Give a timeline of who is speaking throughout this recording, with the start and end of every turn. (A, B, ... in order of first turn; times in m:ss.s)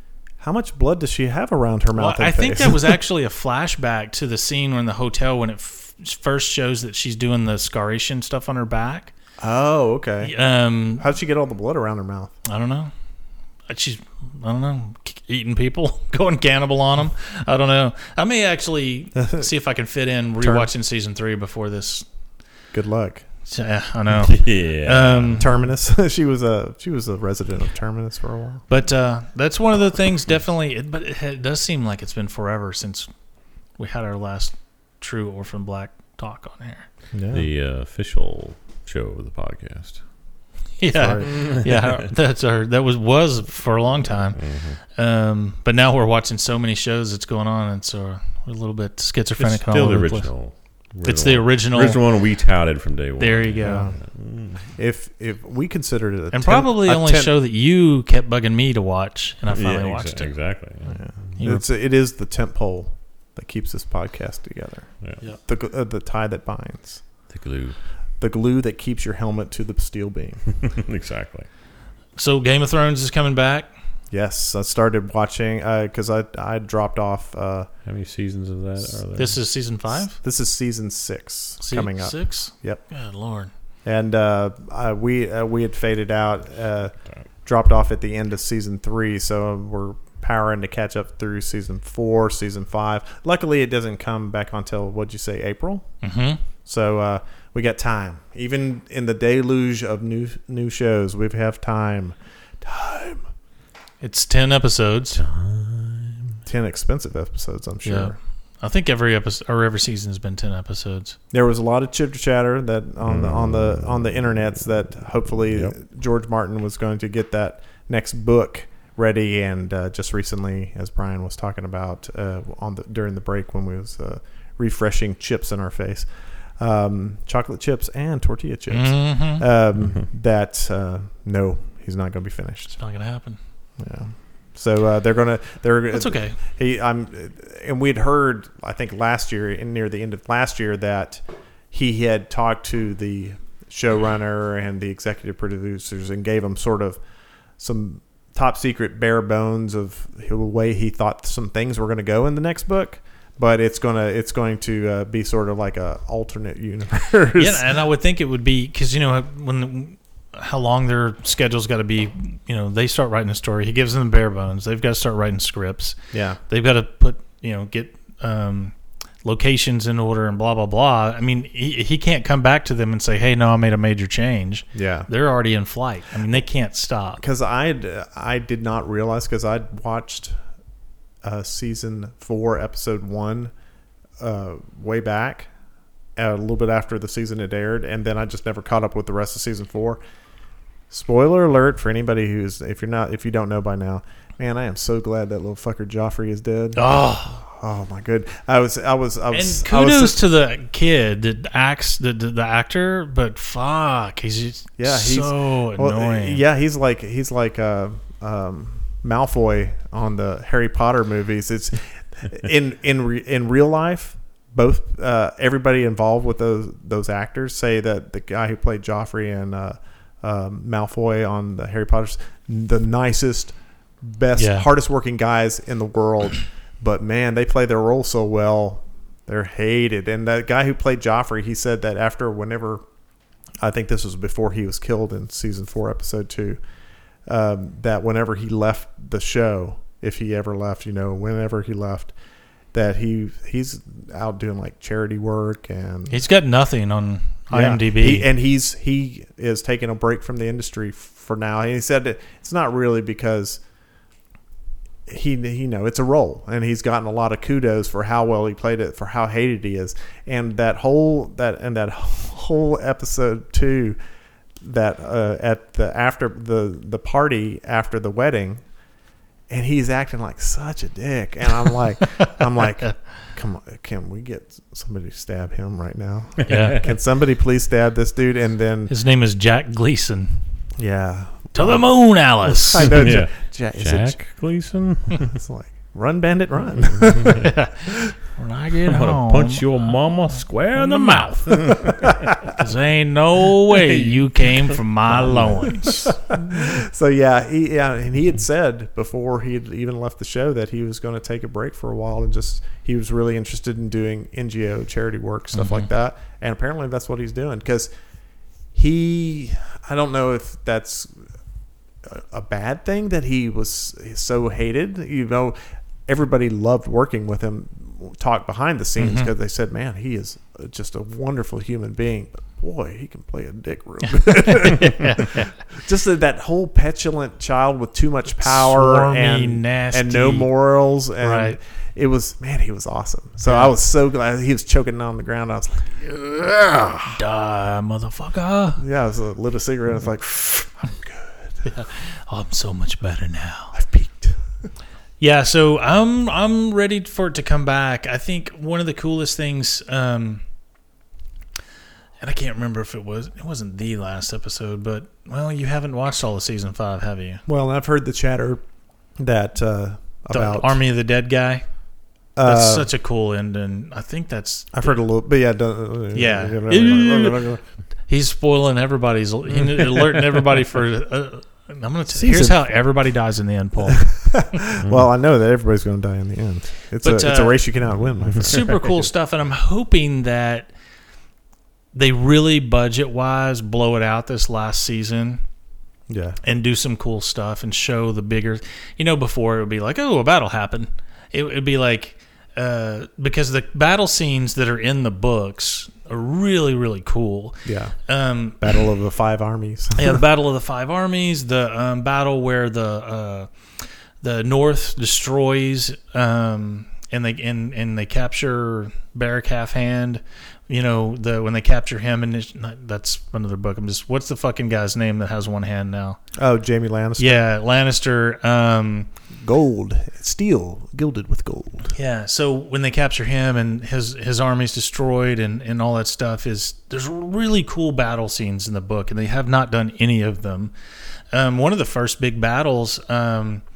0:00.4-0:03.0 A
0:02.0-0:09.1 B
0:09.4-0:10.4 A
0:10.2-0:11.0 B
0:11.0-0:12.3 A
0:12.4-0:12.9 B
0:13.7-0:22.1 B
0:19.2-0:19.5 A
0:20.4-0:20.7 A
0:22.7-0:23.3 A
0:23.5-0:25.5 B
0:24.1-0:25.4 C
0:25.4-0:28.6 A
0:28.7-0:33.1 B
0:33.8-0:36.9 B
0:37.1-0:37.5 A
0:37.3-0:40.0 C
0:40.8-0:44.4 B
0:40.9-0:41.3 A
0:41.2-0:42.1 C
0:44.3-0:44.8 C
0:44.9-0:50.3 B
0:49.4-0:54.7 C
0:51.0-0:52.0 B
0:53.2-0:53.9 B
0:53.6-0:54.0 A
0:54.7-0:57.3 A
0:56.3-1:00.4 B
0:59.5-1:01.0 C
1:00.9-1:07.0 A
1:01.4-1:01.6 B
1:07.3-1:07.8 C
1:08.2-1:10.5 A
1:10.6-1:11.5 C
1:12.2-1:13.7 B
1:14.1-1:17.7 A
1:17.9-1:19.4 C
1:19.2-1:20.2 B
1:19.9-1:22.8 A
1:21.6-1:23.5 B
1:23.8-1:35.9 A
1:36.0-1:36.4 B
1:36.6-1:43.2 A
1:44.0-1:45.2 B
1:45.2-1:46.4 C
1:46.5-1:48.2 A
1:47.8-1:51.2 B
1:51.3-2:12.8 A
1:53.1-1:54.1 C
2:08.7-2:09.4 B
2:12.8-2:13.4 B
2:13.8-2:27.0 A
2:15.9-2:16.4 B
2:27.6-2:37.7 A
2:37.4-2:46.0 B
2:46.1-2:46.4 A
2:46.5-2:57.2 B
2:54.7-2:55.1 A
2:57.2-3:00.4 A
3:01.2-3:03.5 A
3:04.2-3:05.5 A
3:06.2-3:10.0 A
3:10.9-3:20.2 A
3:16.8-3:17.4 B
3:19.3-3:26.4 B
3:24.8-3:52.8 A
3:44.4-3:44.7 B
3:53.6-3:56.6 A
3:57.3-4:02.1 A
4:02.7-4:06.2 A
4:06.1-4:08.3 B
4:07.5-4:13.6 A
4:15.1-4:24.0 A
4:24.6-4:28.6 A
4:29.5-4:38.9 A
4:36.5-4:36.8 B
4:38.9-4:40.4 B
4:40.8-4:44.2 A
4:41.5-4:42.9 B
4:43.0-4:45.3 C
4:45.2-4:47.9 A
4:46.9-4:47.5 C
4:47.2-4:49.9 B
4:48.9-4:52.2 C
4:50.8-4:51.8 B
4:52.5-4:56.1 B
4:53.7-4:55.8 C
4:55.8-5:07.9 A
5:05.6-5:05.8 B
5:08.7-5:11.2 A
5:12.0-5:37.1 A
5:19.0-5:19.3 B
5:24.1-5:25.6 B
5:28.4-5:30.5 B
5:31.2-5:31.6 B
5:33.5-5:33.7 B
5:37.1-5:38.8 B
5:38.8-5:41.7 A
5:41.6-5:43.8 B
5:43.7-5:44.4 A
5:45.2-5:50.4 B
5:52.2-5:57.4 B
5:57.5-5:58.6 A
5:59.2-6:00.8 A
6:00.3-6:01.6 B
6:02.4-6:02.9 A
6:02.4-6:05.0 B
6:04.7-6:07.6 A
6:06.1-6:07.4 B
6:08.1-6:14.1 B
6:09.7-6:10.3 C
6:12.1-6:12.6 A
6:13.9-6:18.7 A
6:17.0-6:17.6 B
6:18.3-6:18.6 C
6:18.4-6:20.7 B
6:21.9-6:25.4 B
6:26.1-6:26.4 A
6:26.4-6:38.7 B
6:37.6-6:38.0 A
6:38.6-6:40.2 A
6:40.0-6:43.5 B
6:44.2-6:56.2 B
6:56.4-6:57.4 A
6:57.2-6:59.1 B
6:59.4-7:01.9 A
7:01.9-7:10.7 B
7:11.3-7:13.6 B